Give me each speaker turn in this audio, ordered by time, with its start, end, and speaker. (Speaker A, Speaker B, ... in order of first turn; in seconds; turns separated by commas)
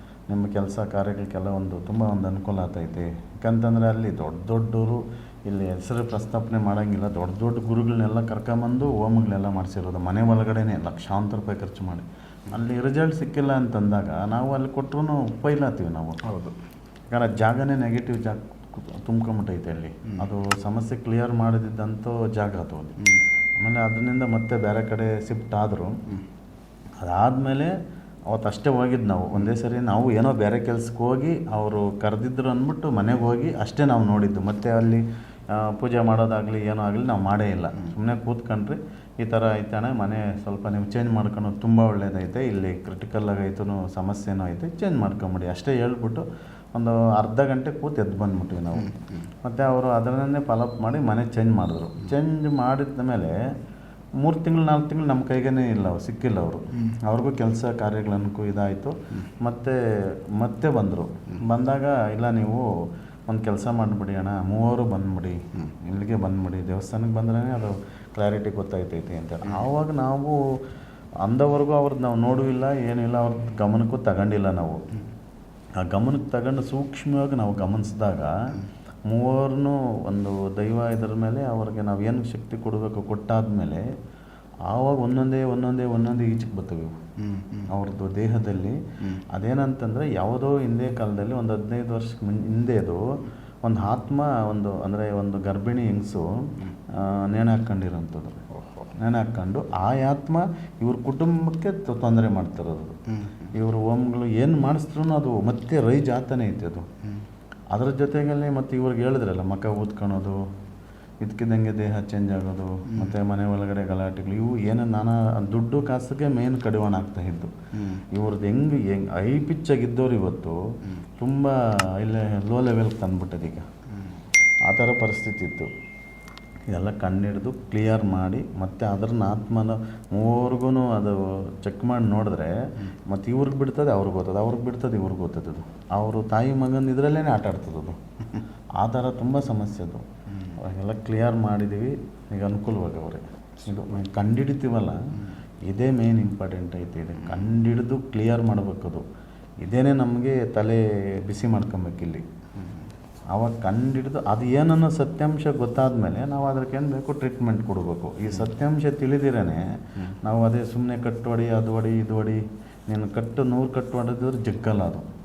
Speaker A: 0.3-16.2, Speaker B: 16.3-16.5, Speaker A: 17.1-23.0, Speaker A: 23.6-25.9, Speaker A: 27.0-27.7, Speaker A: 28.3-35.0, Speaker A: 35.6-46.2, Speaker A: 46.7-53.3, Speaker B: 48.8-49.2, Speaker A: 54.2-59.7, Speaker A: 60.4-62.6, Speaker A: 63.3-70.3, Speaker A: 71.2-74.8, Speaker A: 75.8-78.3, Speaker A: 79.1-83.8, Speaker A: 84.7-87.0, Speaker B: 87.2-87.7, Speaker A: 87.7-88.8, Speaker A: 89.3-93.0, Speaker A: 93.6-96.2, Speaker A: 97.0-98.4, Speaker B: 98.5-98.9, Speaker A: 99.0-103.0, Speaker B: 103.1-103.5, Speaker A: 103.5-106.9, Speaker A: 107.7-110.4, Speaker A: 111.2-117.5, Speaker B: 117.7-118.0, Speaker A: 118.1-120.6, Speaker A: 121.2-123.7, Speaker A: 124.7-125.7, Speaker A: 126.7-132.5, Speaker A: 133.1-138.0, Speaker A: 138.8-140.1, Speaker A: 140.6-145.0, Speaker A: 145.7-149.0, Speaker B: 147.2-147.5, Speaker A: 149.6-152.2, Speaker A: 153.3-159.6, Speaker A: 160.2-165.1